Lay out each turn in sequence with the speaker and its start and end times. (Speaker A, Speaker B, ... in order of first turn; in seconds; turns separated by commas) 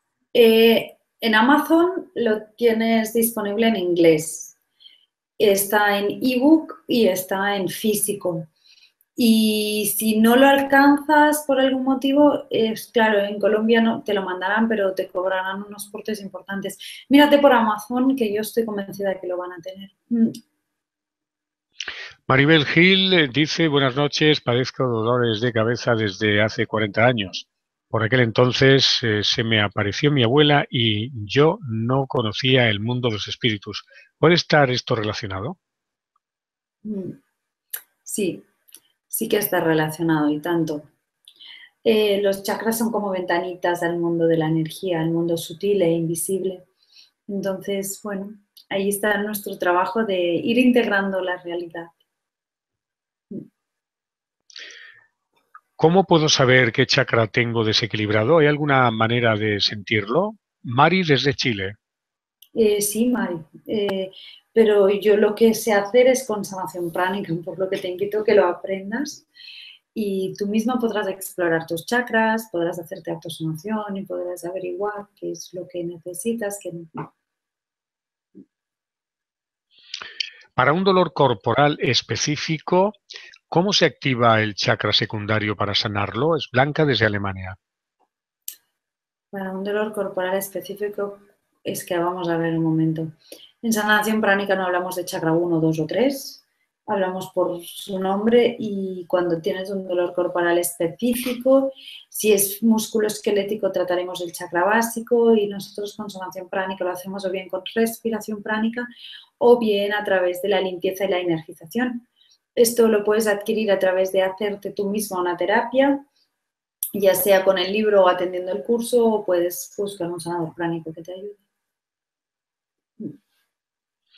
Speaker A: 0.3-4.5, Speaker A: 5.4-8.5, Speaker A: 9.2-20.4, Speaker B: 22.3-35.6, Speaker A: 36.8-37.2, Speaker A: 38.0-38.5, Speaker A: 39.1-40.9, Speaker A: 41.8-46.6, Speaker A: 47.3-51.9, Speaker B: 55.8-61.8, Speaker A: 62.5-69.2, Speaker A: 69.9-77.1, Speaker B: 80.5-83.0, Speaker B: 83.5-87.6, Speaker A: 89.3-108.9, Speaker A: 109.4-116.0, Speaker A: 116.9-121.4